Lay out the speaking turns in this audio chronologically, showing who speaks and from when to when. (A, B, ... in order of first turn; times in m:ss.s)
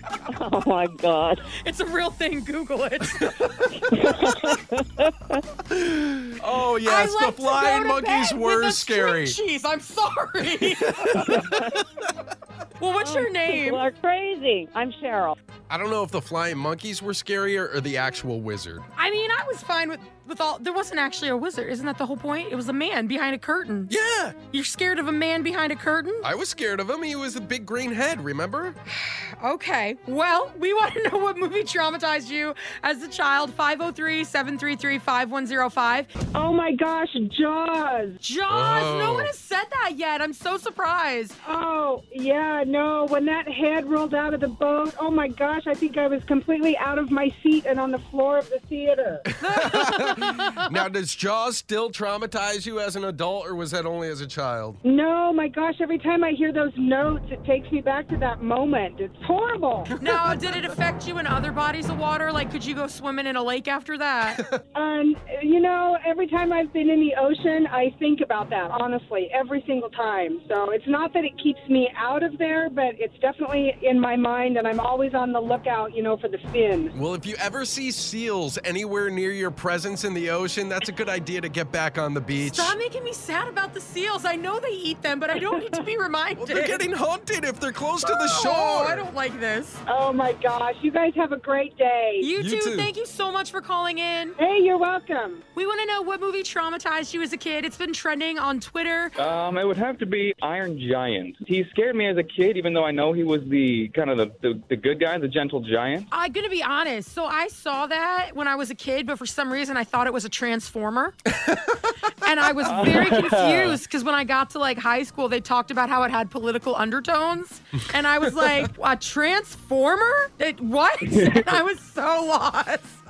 0:00.3-0:01.5 A
0:01.5-0:03.1 B
0:03.1-0:03.7 C
0:03.8-0:05.4 A
0:05.7-0:09.4 C
0:06.8-0:11.0 B
0:10.6-0:11.8 C
0:11.1-0:11.8 A
0:12.8-0:13.8 B
0:13.0-0:15.4 A
0:15.7-0:18.9 C
0:19.0-0:23.9 B
0:23.9-0:24.4 C
0:24.5-0:26.2 B
0:26.2-0:28.8 C
0:29.4-0:36.1 B
0:36.2-0:38.2 D
0:38.3-0:41.3 B
0:38.5-0:39.3 C
0:41.4-0:49.3 D
0:49.4-0:54.8 C
0:49.5-0:50.8 B
0:54.8-0:59.9 D
1:00.0-1:00.7 C
1:00.1-1:04.3 B
1:04.3-1:04.6 C
1:04.8-1:16.9 D
1:16.9-1:22.8 C
1:22.5-1:26.8 B
1:25.3-1:25.9 D
1:26.4-1:29.1 C
1:28.2-1:29.8 B
1:29.9-1:32.3 D
1:32.3-1:34.3 B
1:32.4-1:32.9 C
1:34.4-1:35.4 D
1:35.6-1:39.1 B
1:39.2-1:46.1 E
1:46.1-1:51.2 B
1:51.5-1:51.8 C
1:52.2-2:03.0 B
1:52.6-1:53.8 E
1:58.3-1:58.7 C
2:01.0-2:01.5 E